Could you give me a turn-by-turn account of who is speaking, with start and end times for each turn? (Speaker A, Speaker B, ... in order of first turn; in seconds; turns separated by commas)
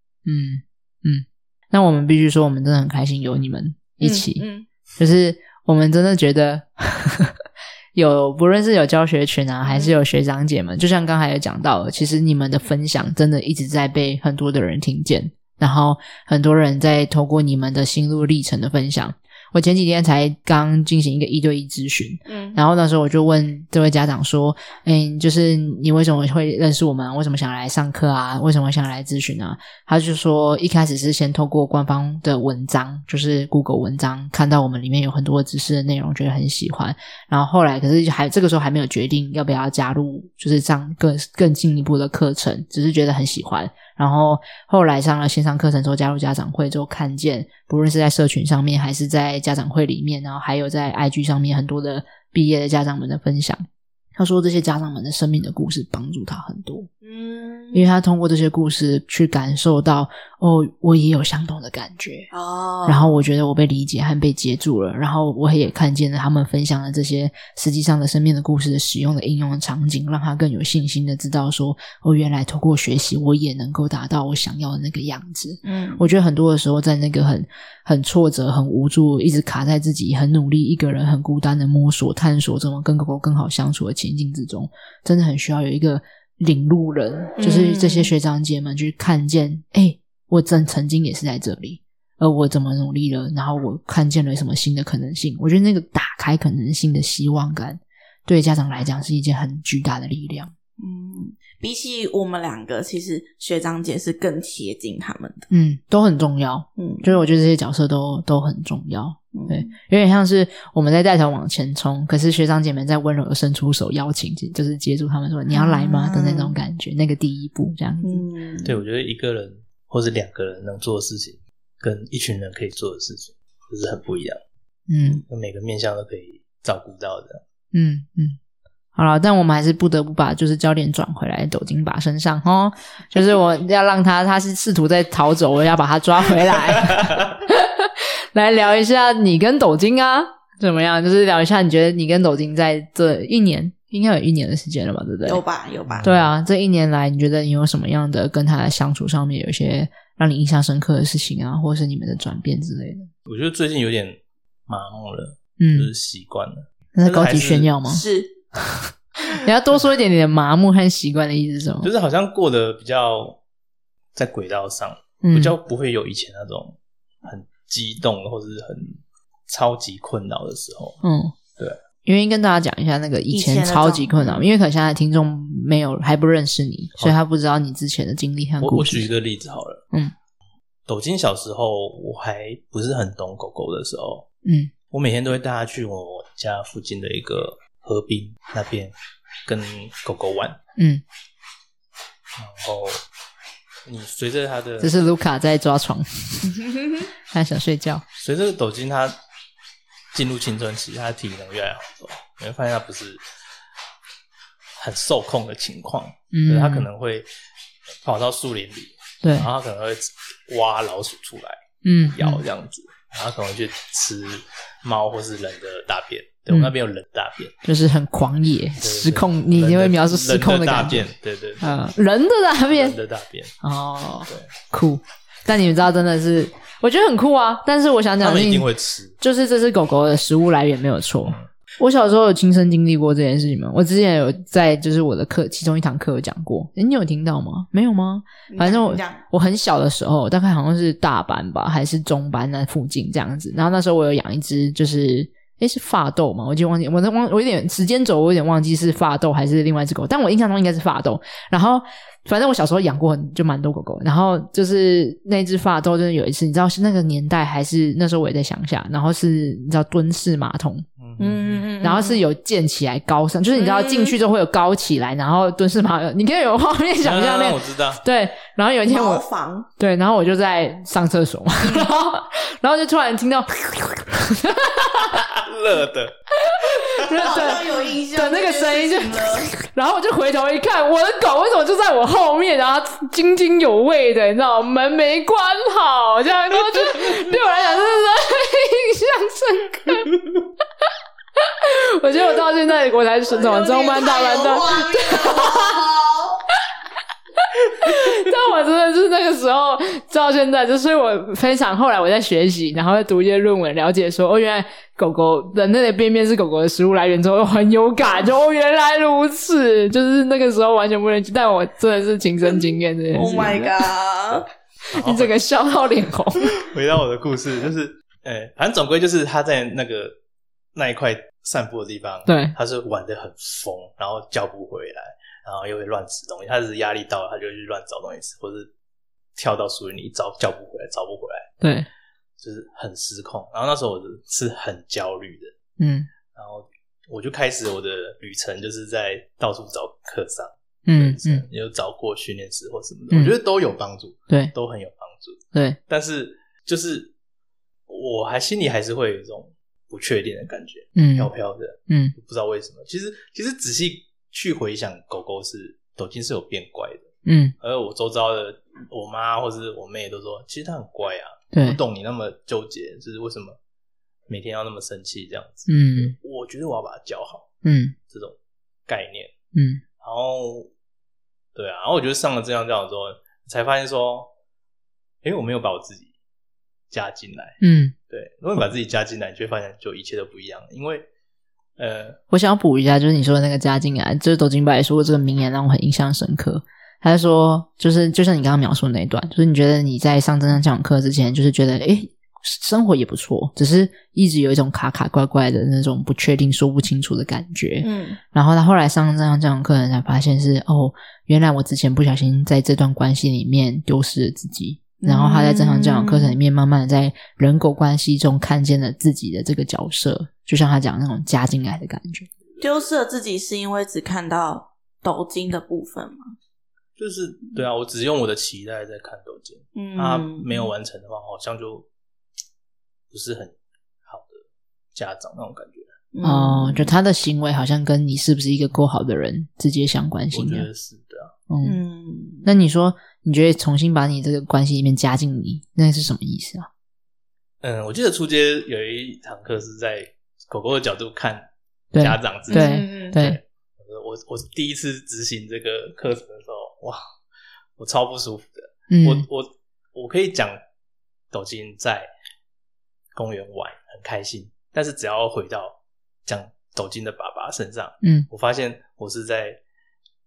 Speaker A: 0.2-4.4, Speaker B: 4.0-4.7, Speaker A: 5.0-7.3, Speaker A: 7.9-56.9, Speaker B: 9.7-9.9, Speaker B: 22.2-22.6, Speaker B: 57.0-57.8, Speaker A: 57.7-62.3, Speaker B: 62.3-63.2, Speaker A: 62.9-100.5, Speaker B: 75.6-76.0, Speaker B: 87.4-88.1, Speaker B: 100.8-105.5, Speaker A: 105.5-118.2, Speaker B: 106.8-107.1, Speaker B: 109.3-109.7, Speaker B: 115.5-116.5, Speaker B: 118.0-118.8, Speaker C: 118.6-124.4, Speaker A: 124.9-125.2, Speaker C: 125.3-127.4, Speaker A: 127.7-128.4, Speaker A: 128.9-145.4, Speaker B: 145.2-146.1, Speaker C: 145.9-146.3, Speaker A: 146.0-153.1, Speaker C: 153.2-157.7, Speaker A: 155.6-155.9, Speaker A: 156.9-158.0, Speaker B: 157.8-158.4, Speaker A: 158.6-161.9, Speaker C: 161.8-163.4, Speaker C: 164.1-171.0, Speaker A: 165.2-165.6, Speaker A: 171.0-171.3, Speaker A: 172.0-179.1, Speaker B: 173.3-174.4, Speaker C: 178.6-179.8, Speaker C: 180.8-184.2, Speaker A: 184.4-184.7, Speaker C: 184.9-188.9, Speaker C: 189.4-190.6, Speaker A: 190.8-191.0, Speaker C: 192.4-193.0, Speaker C: 193.8-194.9, Speaker A: 194.8-196.6, Speaker A: 197.3-198.0, Speaker C: 198.2-199.2, Speaker C: 200.1-203.2, Speaker C: 204.8-207.3, Speaker A: 206.3-206.9, Speaker C: 208.0-217.5, Speaker A: 209.2-209.5, Speaker A: 211.8-212.4, Speaker A: 217.6-221.1, Speaker C: 218.8-221.8, Speaker A: 221.6-222.9, Speaker C: 222.7-223.5, Speaker A: 223.6-228.7, Speaker C: 228.2-229.1, Speaker A: 229.2-260.9, Speaker B: 238.5-239.2, Speaker C: 261.0-261.7, Speaker B: 261.2-262.2, Speaker A: 261.8-269.2, Speaker B: 263.5-264.2, Speaker C: 267.0-268.0, Speaker B: 268.9-269.7, Speaker A: 269.8-275.2, Speaker B: 271.6-271.9, Speaker C: 275.0-276.1, Speaker A: 276.4-290.1, Speaker C: 276.7-277.0, Speaker B: 277.1-279.5, Speaker A: 291.4-295.8, Speaker B: 293.3-296.4, Speaker A: 297.6-313.7, Speaker B: 313.1-314.5, Speaker C: 314.3-315.3, Speaker A: 314.9-316.5, Speaker C: 316.4-320.2, Speaker C: 320.7-328.7, Speaker A: 322.2-322.5, Speaker C: 329.4-331.5, Speaker A: 331.6-331.9, Speaker C: 332.4-335.5, Speaker A: 335.8-336.1, Speaker C: 336.3-347.1, Speaker A: 340.9-341.4, Speaker C: 347.9-357.1, Speaker A: 350.9-351.3, Speaker A: 351.9-352.1, Speaker A: 357.2-357.5, Speaker C: 357.6-363.6, Speaker A: 361.5-361.8, Speaker C: 364.3-367.5, Speaker A: 365.7-366.1, Speaker A: 367.6-367.9, Speaker C: 368.1-368.4, Speaker C: 368.9-369.3, Speaker A: 369.5-369.8, Speaker C: 370.0-370.7, Speaker C: 371.5-374.3, Speaker C: 375.2-376.1, Speaker C: 376.9-381.1, Speaker A: 377.6-377.9, Speaker C: 381.8-382.2, Speaker A: 382.3-412.3, Speaker B: 397.8-398.2, Speaker B: 405.0-406.4, Speaker C: 412.5-412.8, Speaker B: 412.6-416.3, Speaker C: 417.0-421.9, Speaker B: 419.8-420.7, Speaker C: 423.1-423.5, Speaker C: 424.1-424.4, Speaker C: 424.9-425.9, Speaker B: 426.1-426.9, Speaker A: 426.2-430.7, Speaker C: 430.3-431.3, Speaker A: 431.5-431.8, Speaker B: 431.6-432.4, Speaker A: 432.4-436.7, Speaker C: 437.6-447.0, Speaker A: 441.9-443.4, Speaker B: 442.5-443.1, Speaker C: 447.8-450.6, Speaker A: 448.9-449.2, Speaker C: 451.3-452.1, Speaker C: 453.1-459.6